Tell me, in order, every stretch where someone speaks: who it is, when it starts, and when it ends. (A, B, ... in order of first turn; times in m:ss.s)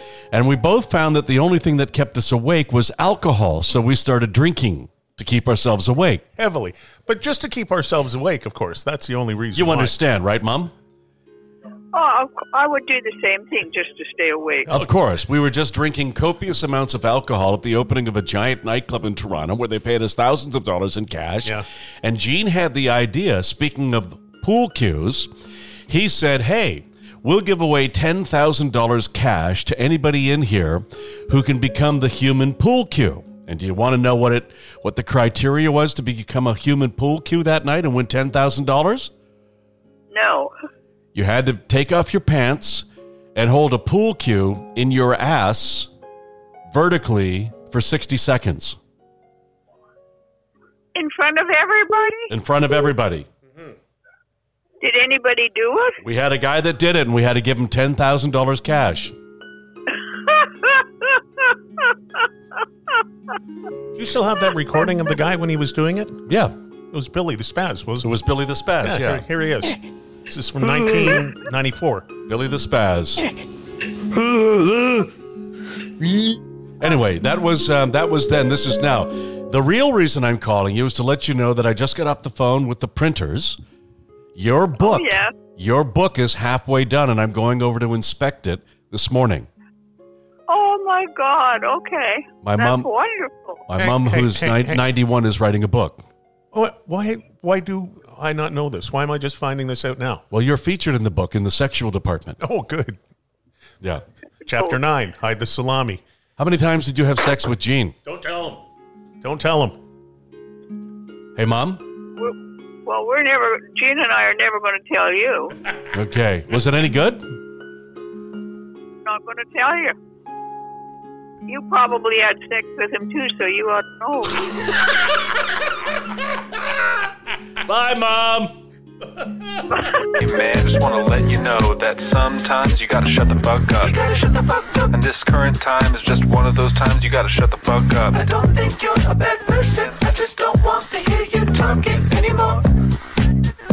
0:00.3-0:06.2 A
0:06.4-0:10.0 B
0:09.5-0:10.7 A
0:11.9-0:14.8 C
0:14.7-0:14.9 B
0:14.7-0:25.3 A
0:25.9-0:39.1 A
0:40.1-0:40.5 C
0:41.1-0:45.9 A
0:46.7-0:48.8 A
0:50.9-0:52.3 C
0:52.3-0:53.3 A
0:54.8-0:56.0 C
0:56.0-0:59.1 A
1:00.2-1:00.8 C
1:04.0-1:06.2 B
1:06.3-1:06.5 A
1:06.9-1:08.1 B
1:08.0-1:09.2 A
1:08.8-1:12.1 B
1:12.3-1:13.3 A
1:14.3-1:15.1 A
1:16.0-1:23.6 A
1:24.3-1:29.5 A
1:24.8-1:25.3 C
1:30.5-1:33.6 C
1:32.4-1:32.9 A
1:33.7-1:36.0 A
1:33.8-1:34.8 B
1:36.5-1:40.2 B
1:40.3-1:42.4 A
1:42.4-1:43.0 B
1:44.4-1:46.0 B
1:46.4-1:47.9 A
1:48.0-1:48.6 B
1:49.2-1:49.8 B
1:51.4-1:51.8 A
1:52.2-1:55.6 C
1:55.9-1:57.2 A
1:59.0-1:59.9 C
2:01.5-2:04.4 C
2:07.6-2:08.5 A
2:10.2-2:19.0 D
2:18.8-2:21.4 E
2:19.6-2:22.6 D